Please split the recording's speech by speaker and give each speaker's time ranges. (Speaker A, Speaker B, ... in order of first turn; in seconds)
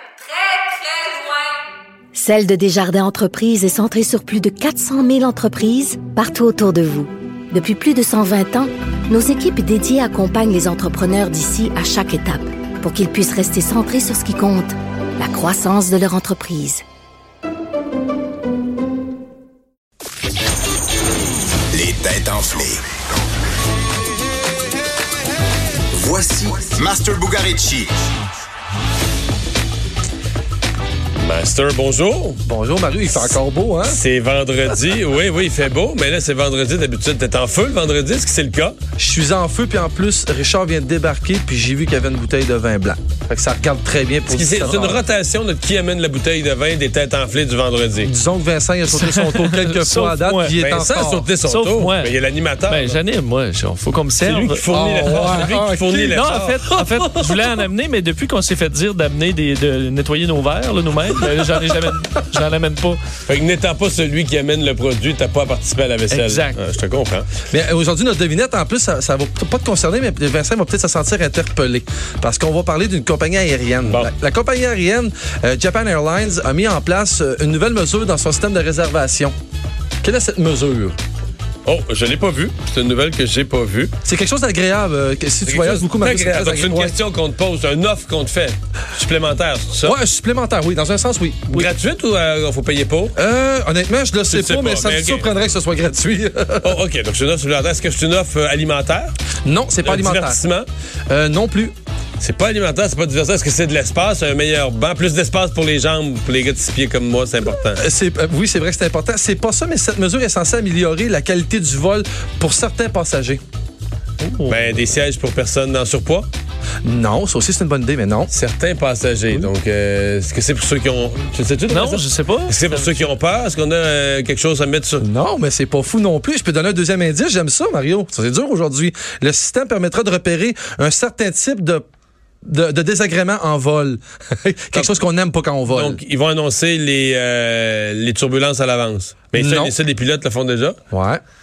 Speaker A: 0.4-1.2, 2.1-16.8
Speaker B: 21.7-22.8, 25.9-27.9
Speaker C: 31.2-32.4, 33.9-38.8, 44.3-48.1, 50.6-53.0, 54.2-56.7, 63.3-67.3, 81.7-83.9, 85.5-90.0, 91.5-93.2, 94.3-95.3, 96.6-99.1, 99.8-100.7, 102.2-107.8, 114.5-116.3, 118.3-125.0, 135.7-140.8
Speaker D: 32.5-34.0, 39.0-45.0, 48.0-51.3, 54.7-56.1, 67.5-79.3, 80.0-81.0, 84.0-87.0, 89.8-91.7, 93.2-96.8, 99.5-100.4, 101.1-101.7, 107.8-113.4, 116.8-118.3, 125.0-131.8, 132.4-136.0, 139.4-139.8, 140.9-141.2
Speaker E: 49.0-50.5, 51.4-52.1, 52.7-63.0, 66.1-66.6, 114.2-114.7, 121.7-123.0